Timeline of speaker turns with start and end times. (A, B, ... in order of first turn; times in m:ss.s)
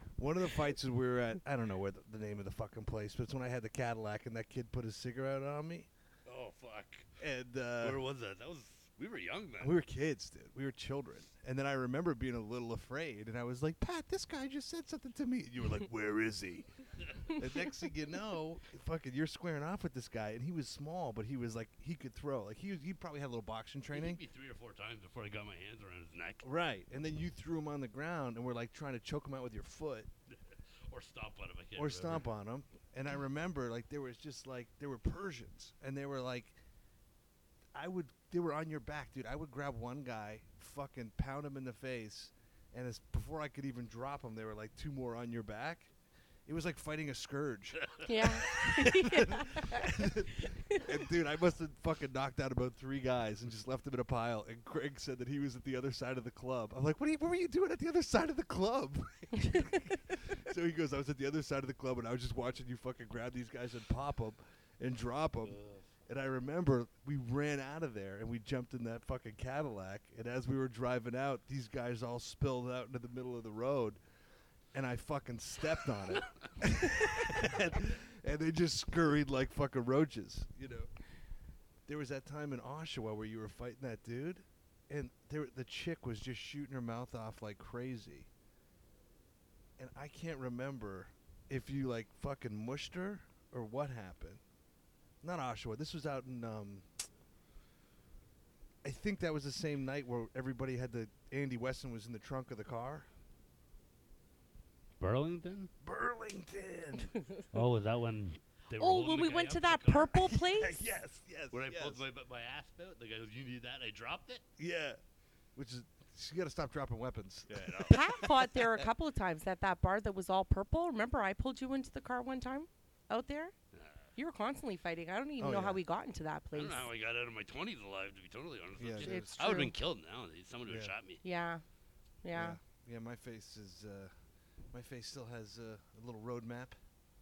0:00.2-0:05.9 A
0:06.2-0:07.2 B
0:07.2-0:08.0 A
0:07.8-0:09.7 B
0:09.6-0:16.7 A
0:17.3-0:24.2 A
0:23.9-0:26.4 B
0:26.4-0:30.1 A
0:30.9-0:32.2 B
0:31.8-0:36.6 A
0:37.7-0:45.9 A
0:46.4-1:14.0 A
0:48.0-0:48.6 B
0:48.0-0:50.0 C
1:05.5-1:05.8 B
1:14.7-1:20.9 A
1:21.9-1:28.3 A
1:29.8-1:34.4 A
1:35.2-1:36.9 A
1:38.8-1:43.1 A
1:45.0-1:45.7 B
1:45.8-1:47.1 A
1:47.5-1:50.3 B
1:48.8-1:50.8 C
1:50.5-1:52.0 A
1:51.5-1:54.4 B
1:54.6-1:55.0 A
1:55.6-1:58.5 A
1:57.5-1:58.1 B
1:57.8-2:03.5 C
2:03.7-2:04.1 B
2:04.2-2:06.9 C
2:05.4-2:05.8 A
2:06.5-2:11.2 B
2:08.8-2:09.4 A
2:09.0-2:09.7 C
2:10.7-2:10.9 A
2:11.2-2:11.6 C
2:12.2-2:12.6 C
2:12.3-2:14.1 A
2:14.7-2:16.8 A